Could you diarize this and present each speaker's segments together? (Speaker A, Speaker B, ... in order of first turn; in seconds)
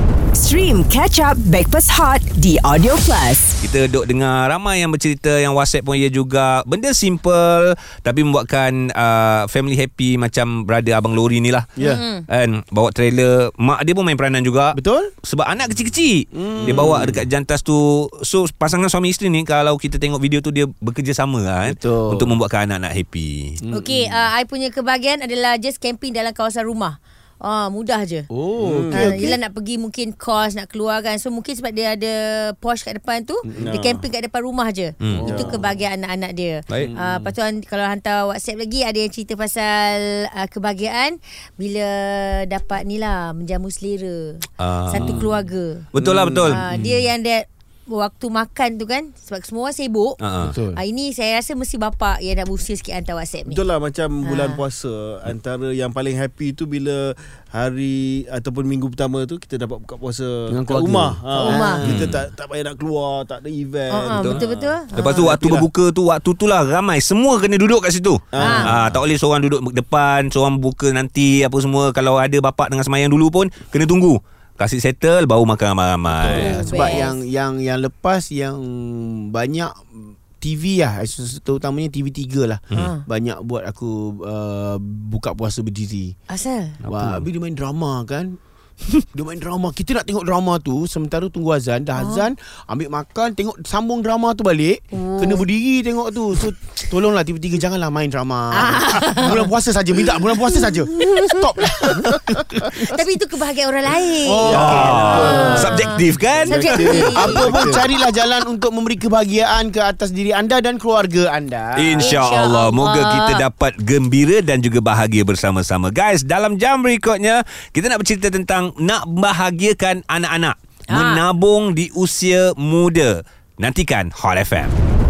Speaker A: 0.3-3.6
Speaker B: 3.6-11.8, 12.3-23.6, 35.0-35.3, 44.6-45.2, 45.9-47.0, 50.2-50.5, 61.8-62.2, 64.2-76.9, 86.8-87.3, 104.5-107.0, 111.8-124.8
Speaker C: 11.8-12.0, 14.8-15.1, 16.3-17.3, 21.6-22.3, 23.6-24.3, 28.3-29.4, 33.5-34.0, 35.1-35.6, 36.8-37.3, 44.9-45.3, 50.4-50.8, 60.5-62.0, 76.2-86.1, 86.9-88.4, 89.1-103.0, 104.2-105.8, 106.9-112.2
Speaker D: 11.8-12.2, 23.7-28.3, 28.9-45.9, 46.5-50.2, 50.7-53.6, 54.2-54.6, 61.3-61.8, 63.9-65.3, 68.4-68.7, 76.3-77.2, 82.7-83.0, 86.3-86.8, 92.0-92.3, 94.9-95.4, 98.5-99.5, 100.5-102.0, 102.8-107.7, 112.0-113.4, 120.9-121.2
Speaker E: 28.6-29.2, 33.6-33.9, 35.2-35.6, 45.9-46.6, 53.5-64.4, 65.0-65.7, 68.3-69.0, 104.4-107.8